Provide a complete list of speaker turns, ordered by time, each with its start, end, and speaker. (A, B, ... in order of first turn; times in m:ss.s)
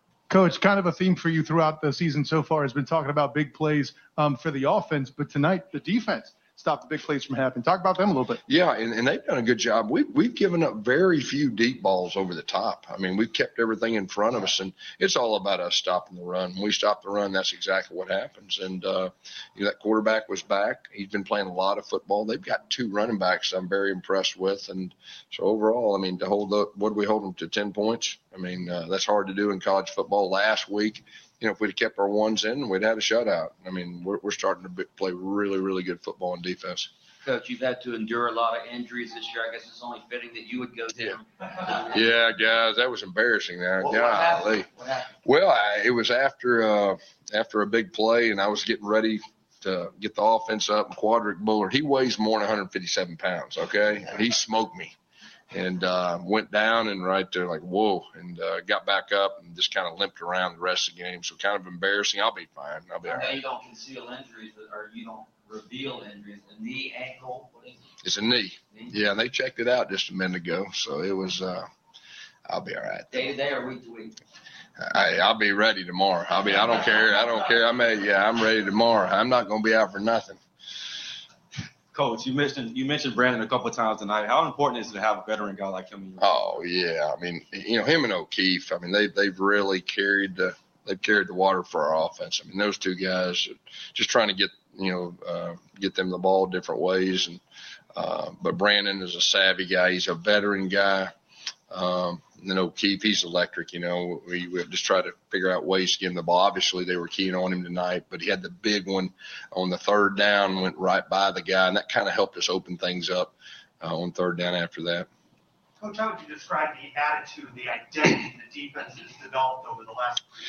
0:00.3-0:08.4 A
0:08.5-0:36.9 B
0:37.2-0:42.3 C
0:41.9-0:44.7 B
0:43.8-0:45.1 C
0:45.2-0:55.0 B
0:55.5-1:03.4 B
1:03.0-1:07.9 C
1:08.0-1:11.7 B
1:12.5-1:13.3 B
1:13.1-1:14.2 C
1:14.8-1:20.4 B
1:21.9-1:26.3 D
1:26.2-1:37.4 B
1:38.0-1:41.1 B
1:41.7-1:55.1 B
1:55.8-2:00.2 E